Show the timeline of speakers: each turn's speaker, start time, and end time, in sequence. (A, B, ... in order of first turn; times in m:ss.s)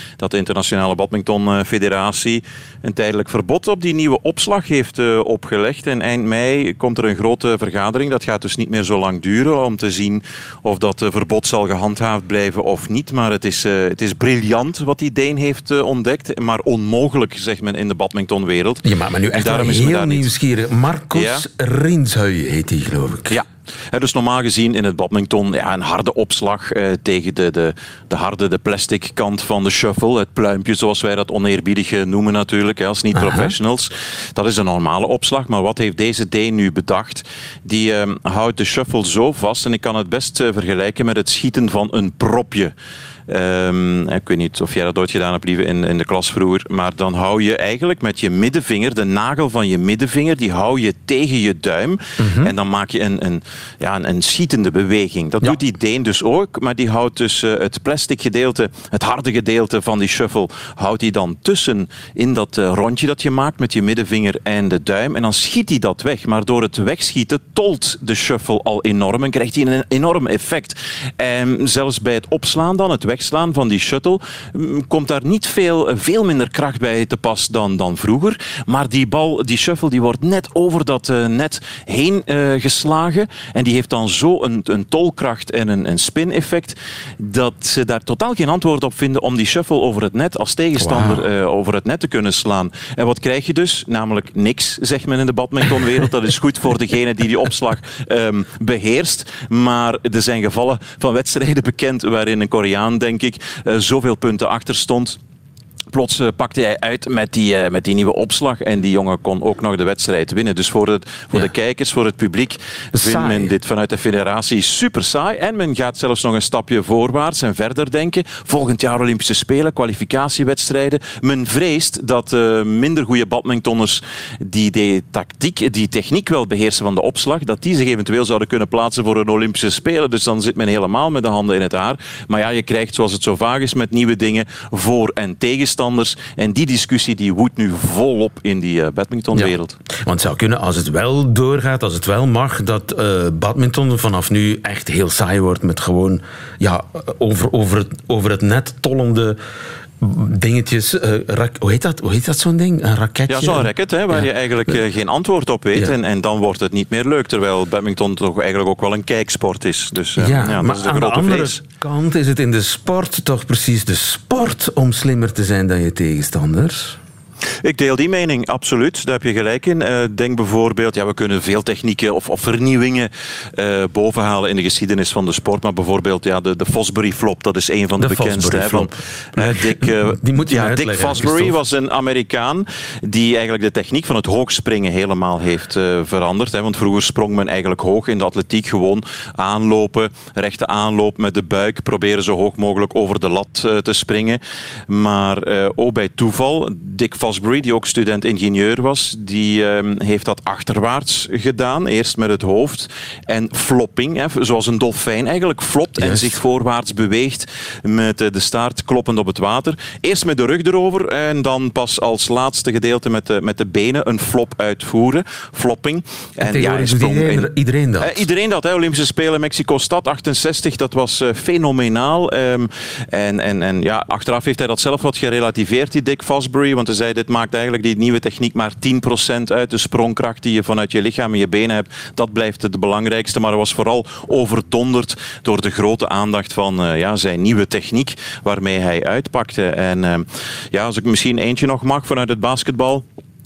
0:00.2-0:20.3 A
0:18.8-0:23.4 B
0:21.1-0:21.4 A
0:23.3-0:42.7 A
0:33.1-0:33.6 B
0:43.3-1:45.2 A
0:52.2-0:52.5 B
1:30.8-1:31.3 B
1:45.9-2:19.8 A
1:52.9-1:53.5 B
2:19.3-2:29.4 B
2:30.0-2:34.8 B
2:33.3-2:41.6 A
2:40.2-2:47.0 B
2:47.6-4:03.0 A
2:58.0-3:01.6 B
3:26.0-3:26.4 B
3:36.4-3:38.3 B